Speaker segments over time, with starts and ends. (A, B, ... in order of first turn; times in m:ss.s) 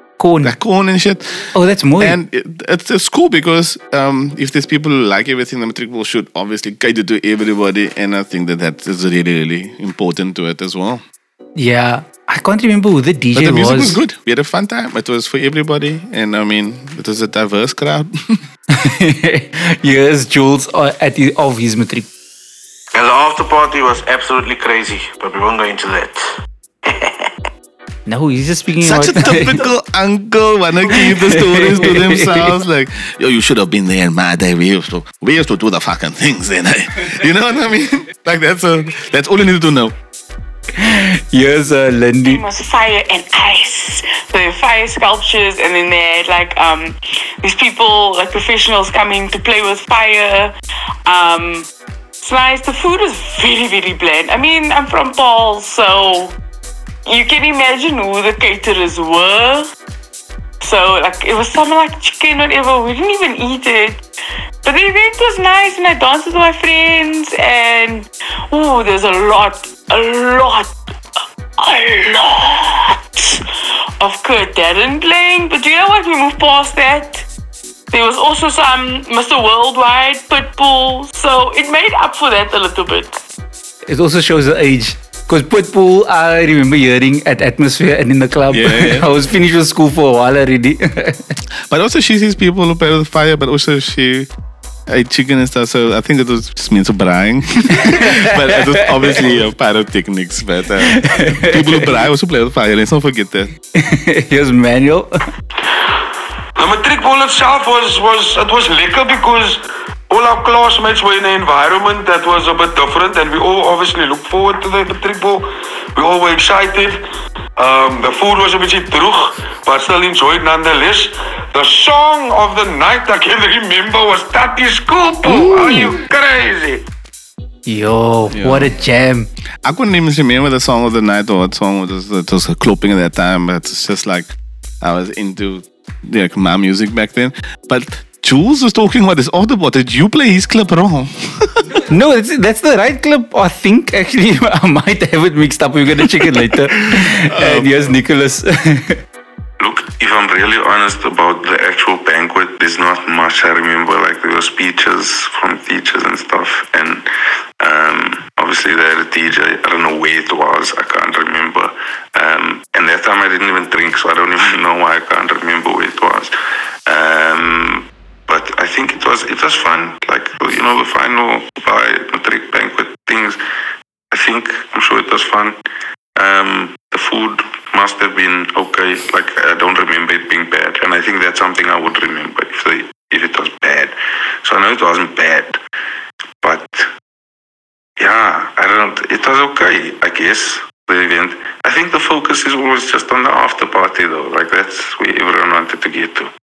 0:00.2-0:00.5 A
0:00.4-0:11.0 B
0:01.6-0:02.2 A
0:11.6-0:14.0 A
0:13.3-0:18.4 B
0:18.7-0:22.1 A
0:22.9-0:26.2 C
0:26.9-0:27.2 C
0:28.1-0:29.6 A
0:28.8-0:39.9 B
0:30.9-0:32.5 A
0:40.8-0:42.4 A
0:42.2-0:50.5 D
0:51.1-0:51.7 D
0:52.2-0:56.3 D
0:57.1-0:59.7 D
1:00.6-1:04.0 D
1:04.6-1:10.7 D
1:11.6-1:13.5 D
1:14.0-1:17.3 D
1:17.9-1:23.2 D
1:23.9-1:31.4 A
1:28.5-1:29.1 B
1:31.7-1:34.3 B
1:34.9-1:43.5 B
1:37.7-1:39.0 A
1:40.9-1:42.0 A
1:43.8-1:45.1 A
1:46.6-1:57.0 E
1:57.6-2:06.8 E
2:05.3-2:05.9 B
2:07.7-2:09.3 A
2:08.3-2:08.7 B
2:09.6-2:21.8 B
2:21.9-2:29.0 A
2:27.0-2:27.7 B
2:29.6-2:37.1 F
2:37.6-2:46.3 F
2:46.9-2:53.4 F
2:54.1-2:55.6 F
2:56.2-3:05.6 F
3:06.4-3:06.9 F
3:08.0-3:16.3 F